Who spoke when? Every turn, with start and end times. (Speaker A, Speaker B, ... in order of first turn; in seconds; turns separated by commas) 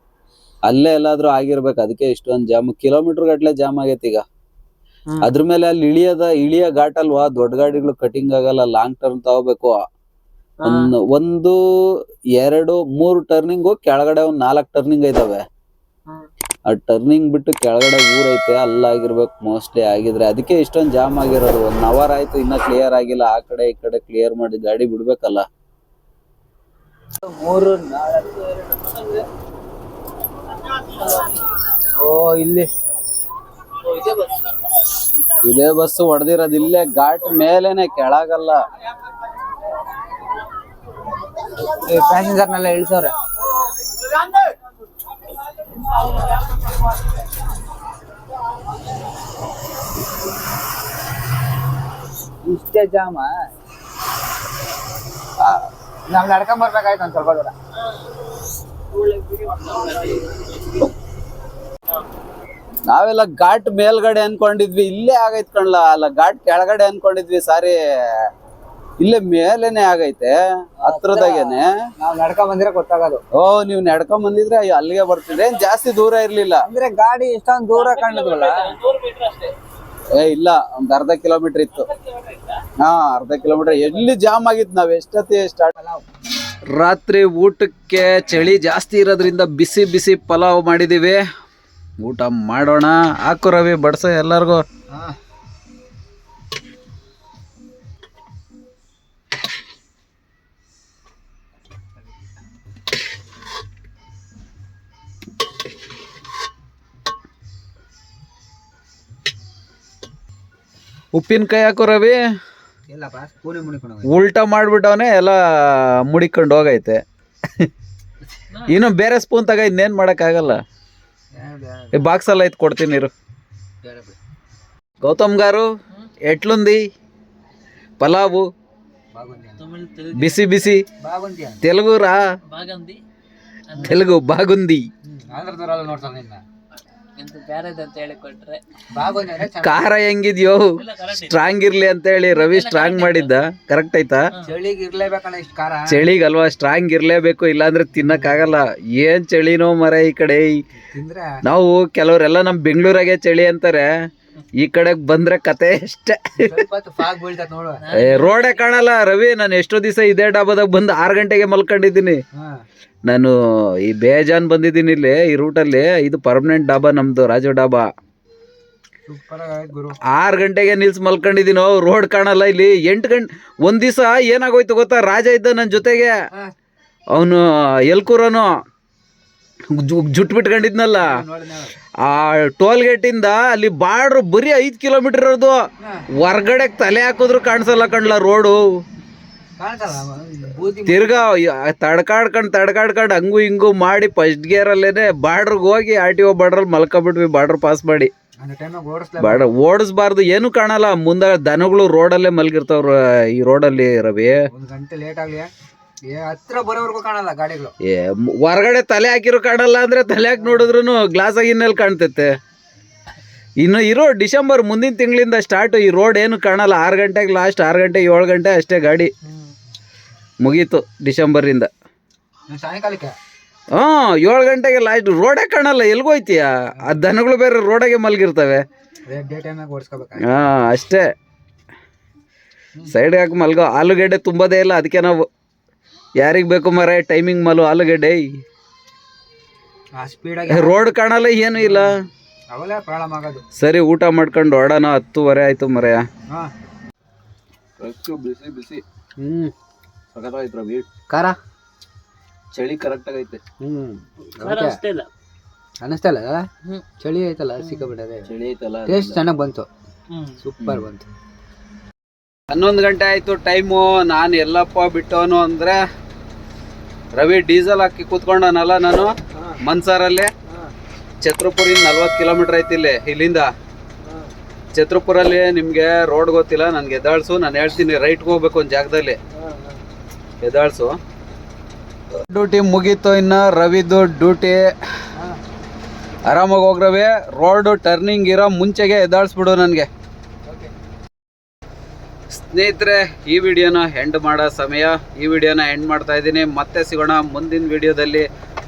Speaker A: 0.7-4.2, Speaker B: 5.1-5.3, Speaker A: 5.2-9.8, Speaker B: 10.6-10.9, Speaker A: 10.6-11.6, Speaker A: 12.4-15.4, Speaker A: 16.7-25.5, Speaker C: 27.2-29.2, Speaker C: 31.9-32.7, Speaker A: 35.4-38.6, Speaker C: 41.6-43.1, Speaker C: 52.4-53.4, Speaker A: 55.4-55.7, Speaker C: 56.1-57.5, Speaker B: 58.9-60.3, Speaker A: 62.9-68.3, Speaker A: 69.0-71.8, Speaker C: 70.8-73.2, Speaker A: 73.3-76.6, Speaker C: 76.6-78.7, Speaker B: 77.7-79.5, Speaker A: 80.1-81.9, Speaker B: 81.9-82.6, Speaker A: 82.8-85.7, Speaker C: 85.7-86.0, Speaker A: 86.7-91.2, Speaker A: 92.0-94.6, Speaker C: 94.9-95.2, Speaker A: 111.1-112.2, Speaker C: 112.9-114.1, Speaker A: 114.1-117.7, Speaker A: 118.7-120.6, Speaker C: 121.3-122.1, Speaker A: 121.9-123.1, Speaker C: 123.8-124.2, Speaker A: 125.0-125.7, Speaker A: 126.2-126.8, Speaker A: 128.0-128.5, Speaker C: 129.1-129.6, Speaker B: 129.6-130.6, Speaker A: 130.1-130.8, Speaker C: 131.0-131.6, Speaker A: 131.6-132.3, Speaker B: 132.5-133.0, Speaker B: 133.7-134.0, Speaker A: 133.8-134.9, Speaker C: 135.1-136.4, Speaker B: 137.2-138.6, Speaker C: 138.9-139.9, Speaker A: 139.6-144.3, Speaker B: 140.8-141.5, Speaker B: 142.4-143.3, Speaker C: 144.4-146.0, Speaker A: 145.9-150.6, Speaker C: 148.0-148.5, Speaker C: 150.7-151.4, Speaker A: 151.4-153.9, Speaker A: 154.6-156.6, Speaker C: 156.3-157.8, Speaker B: 157.8-158.4, Speaker A: 157.9-162.2, Speaker C: 162.3-162.6, Speaker A: 163.1-167.9, Speaker C: 169.1-170.0, Speaker A: 170.1-176.2, Speaker A: 177.1-178.5, Speaker A: 179.7-181.2, Speaker C: 181.0-181.7, Speaker A: 182.0-185.6, Speaker C: 185.8-186.1, Speaker A: 186.1-188.6, Speaker C: 189.6-191.3, Speaker A: 190.8-198.1, Speaker C: 198.4-199.5, Speaker A: 199.2-204.4, Speaker C: 204.5-205.5, Speaker C: 206.1-207.7, Speaker A: 207.8-212.4, Speaker A: 213.6-219.1, Speaker A: 220.4-221.7, Speaker C: 222.5-223.2, Speaker A: 223.7-228.6, Speaker C: 229.1-230.5, Speaker A: 230.2-231.1, Speaker A: 232.9-235.3, Speaker A: 236.2-238.4, Speaker C: 240.0-240.8, Speaker A: 240.5-242.0, Speaker C: 241.6-241.9, Speaker C: 242.5-243.4, Speaker A: 243.6-246.1, Speaker A: 247.8-248.8, Speaker C: 249.2-249.5, Speaker A: 250.1-250.9, Speaker C: 251.1-251.4, Speaker A: 252.5-253.4, Speaker C: 253.6-254.8, Speaker B: 254.3-255.1, Speaker C: 255.8-256.4, Speaker C: 257.0-258.3, Speaker A: 258.3-259.2, Speaker C: 258.9-259.7, Speaker B: 260.1-260.4, Speaker C: 260.4-261.1, Speaker A: 262.5-265.8, Speaker A: 267.1-270.3, Speaker A: 271.2-273.5, Speaker A: 274.7-279.2, Speaker A: 280.4-281.0, Speaker A: 282.2-284.7, Speaker A: 286.3-289.9, Speaker A: 292.3-298.3